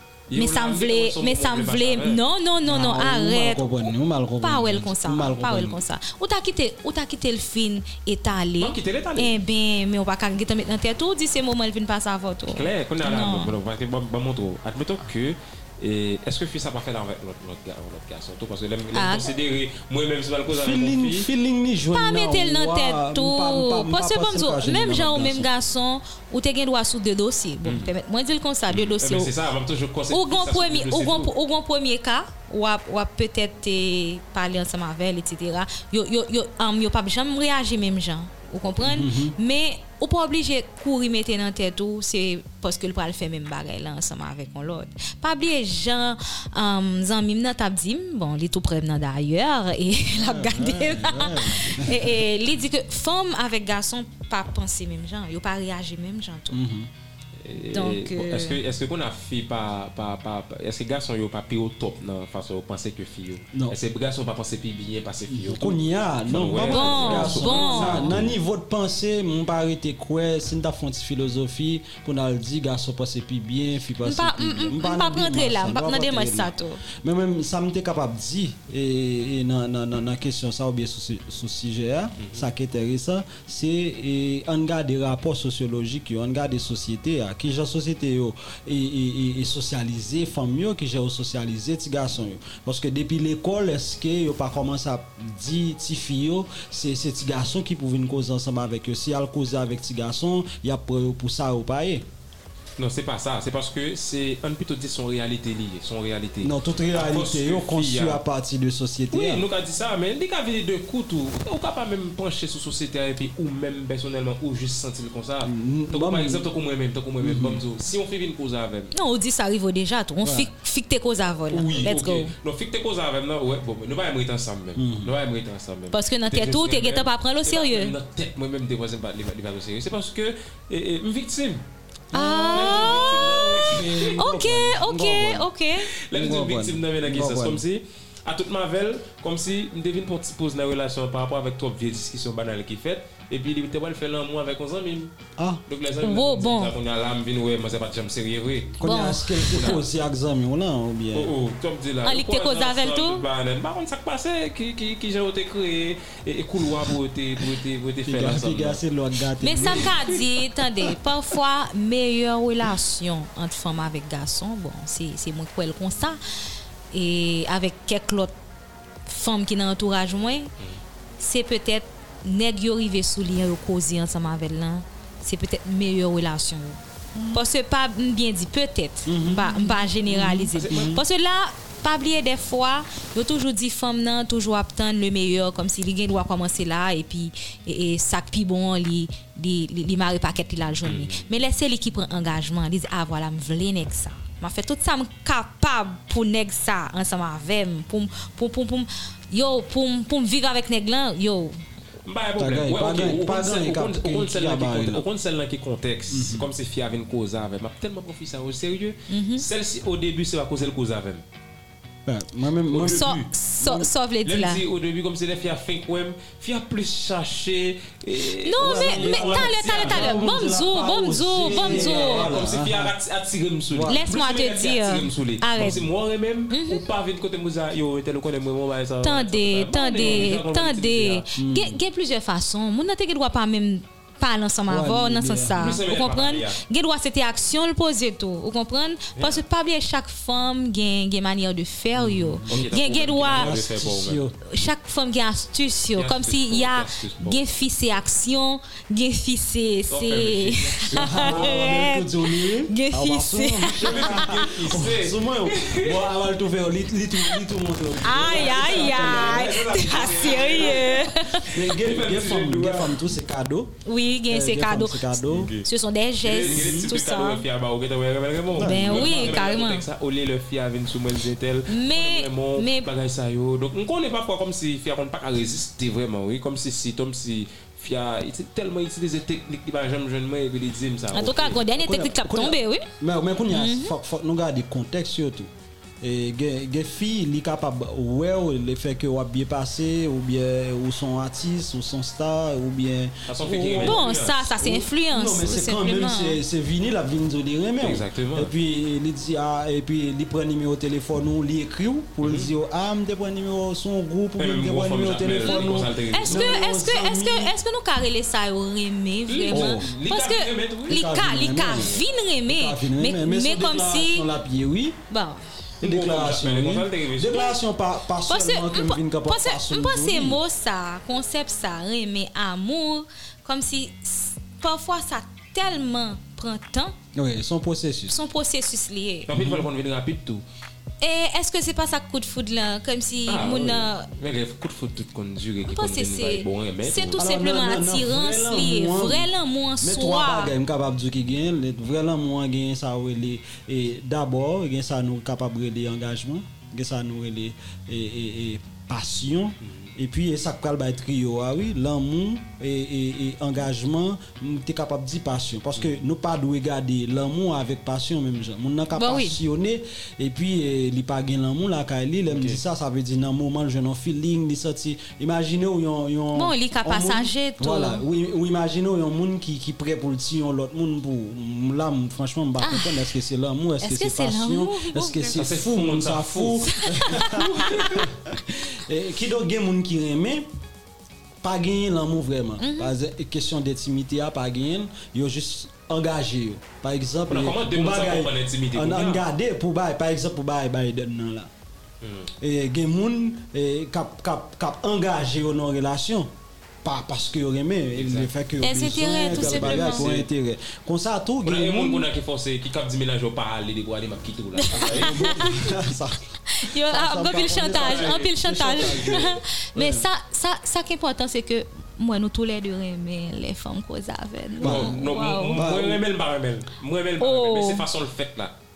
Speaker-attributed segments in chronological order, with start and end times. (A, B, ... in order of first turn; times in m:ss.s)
0:00.3-0:02.2 A
0:00.3-0:13.6 B
0:02.7-0:05.8 C
0:05.2-0:05.7 A
0:08.6-0:09.3 A
0:12.5-0:21.3 A
0:18.9-0:19.3 B
0:20.5-0:25.5 C
0:21.9-0:29.3 B
0:27.6-0:27.9 A
0:28.7-0:31.3 A
0:30.1-0:56.6 B
0:38.8-0:39.4 C
0:50.1-0:52.2 C
0:56.5-0:56.9 C
0:57.4-1:08.4 A
0:57.7-0:58.6 B
1:05.3-1:42.0 C
1:06.6-1:08.2 B
1:14.0-1:16.8 B
1:22.2-1:22.5 A
1:42.8-1:48.2 A
1:46.4-1:49.4 C
1:49.1-1:58.9 A
1:55.4-1:56.5 C
1:57.2-1:57.6 C
1:58.9-2:02.3 B
2:00.2-2:00.5 C
2:01.5-2:11.6 A
2:04.8-2:05.1 C
2:05.9-2:08.0 B
2:12.1-2:15.5 C
2:12.1-2:15.9 B
2:12.5-2:14.2 A
2:16.1-2:25.1 A
2:16.1-2:17.6 C
2:25.4-2:25.6 C
2:25.7-2:28.8 A
2:26.0-2:26.8 B
2:28.8-2:31.3 C
2:28.8-2:29.5 B
2:29.4-2:29.9 A
2:31.1-2:38.8 A
2:32.0-2:33.3 B
2:38.0-2:39.9 C
2:39.4-2:46.2 B
2:39.8-2:40.2 A
2:46.9-2:48.4 B
2:49.1-2:50.5 B
2:51.2-2:56.8 B
2:57.2-2:57.4 C
2:57.3-3:21.6 B
2:59.1-3:01.0 C
3:00.6-3:01.0 A
3:10.8-3:11.2 A
3:22.0-3:31.2 A
3:22.4-3:25.0 C
3:26.1-3:26.5 C
3:29.1-3:29.5 B
3:32.1-3:33.7 C
3:32.7-3:40.3 A
3:32.8-3:34.6 B
3:38.4-3:42.4 B
3:38.6-3:42.9 C
3:41.4-3:51.3 A
3:43.7-3:44.0 C
3:43.8-3:45.9 B
3:45.6-3:45.9 C
3:46.5-3:46.9 B
3:49.0-4:03.6 B
3:50.0-3:50.3 C
3:51.4-3:51.8 C
3:54.7-3:55.8 C
3:55.5-3:56.6 A
3:59.2-3:59.4 A
4:02.0-4:02.8 C
4:02.5-4:04.3 A
4:03.3-4:04.4 C
4:04.4-4:14.4 B
4:05.9-4:07.4 A
4:09.9-4:11.6 A
4:10.9-4:19.6 C
4:13.8-4:16.1 A
4:18.0-4:21.6 B
4:18.1-4:23.0 A
4:21.5-4:23.8 C
4:23.8-4:27.5 B
4:24.3-4:25.5 C
4:25.3-4:25.7 A
4:26.2-4:41.7 A
4:26.5-4:26.9 C
4:28.6-4:29.6 C
4:28.6-4:29.8 B
4:31.7-4:32.9 B
4:41.1-4:42.9 B
4:41.8-4:45.5 C
4:43.5-4:44.0 B
4:46.0-4:54.0 C
4:53.3-4:54.4 A
4:53.8-4:56.4 B
4:54.6-5:07.5 C
4:57.8-4:58.5 A
5:02.2-5:02.5 A
5:04.4-5:06.6 A
5:05.3-5:14.3 B
5:09.3-5:11.1 A
5:09.5-5:09.9 C
5:10.9-5:15.0 C
5:11.7-5:12.0 A
5:15.1-5:15.4 B
5:15.8-5:17.6 A
5:15.8-5:20.4 C
5:18.3-5:27.0 B
5:27.2-5:28.2 C
5:28.1-5:29.3 B
5:29.3-5:30.4 A
5:29.3-5:29.7 C
5:31.0-5:34.1 B
5:33.3-5:37.2 A
5:35.7-5:40.6 B
5:37.2-6:20.5 C
5:49.7-5:49.9 A
5:58.9-5:59.4 B
6:02.3-6:02.6 A
6:06.3-6:08.0 B
6:12.6-6:13.1 B
6:13.8-6:15.4 B
6:15.4-6:18.0 A
6:16.7-6:18.1 B
6:21.4-6:31.5 C
6:22.6-6:22.9 B
6:27.3-6:29.3 A
6:32.0-6:32.3 A
6:32.4-6:36.3 C
6:36.8-6:42.1 C
6:38.0-6:38.3 A
6:38.6-6:40.1 B
6:39.1-6:40.3 A
6:41.4-6:45.6 A
6:44.6-6:45.7 B
6:44.7-6:46.2 C
6:46.5-6:55.6 B
6:46.8-6:50.1 C
6:47.6-6:49.0 A
6:54.6-6:56.0 C
6:54.6-6:58.6 A
6:57.2-6:57.9 B